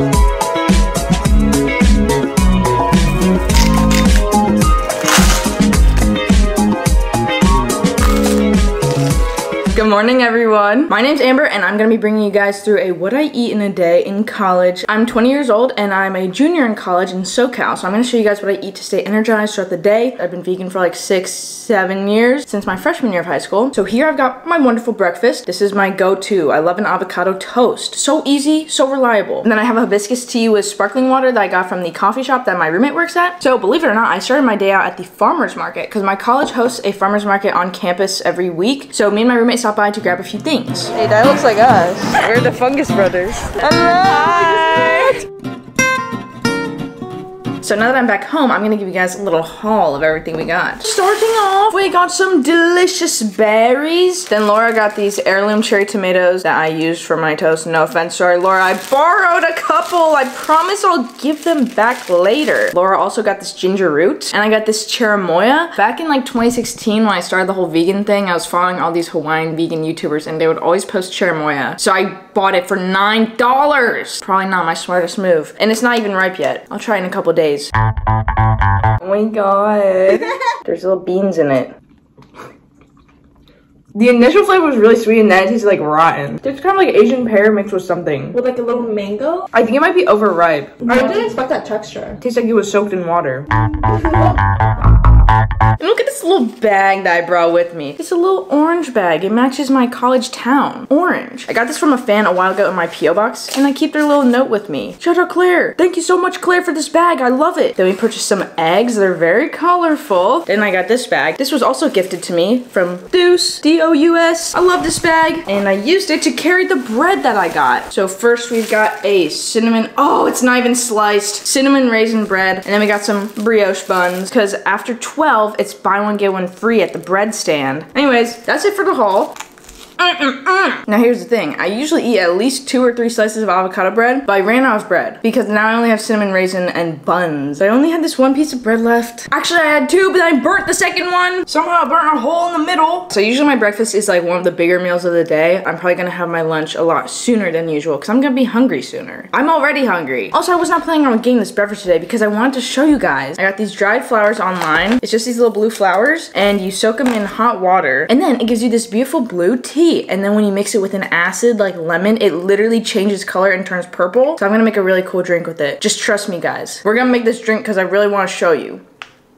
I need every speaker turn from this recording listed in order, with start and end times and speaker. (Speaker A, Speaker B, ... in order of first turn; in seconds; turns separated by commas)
Speaker A: 9.7-45.2, Speaker A: 47.6-77.7, Speaker A: 79.0-81.7, Speaker A: 83.9-88.4, Speaker B: 88.3-89.5, Speaker A: 89.5-91.4, Speaker B: 90.8-92.2, Speaker A: 92.2-93.5, Speaker B: 94.0-94.3, Speaker A: 95.8-129.4, Speaker A: 130.0-168.8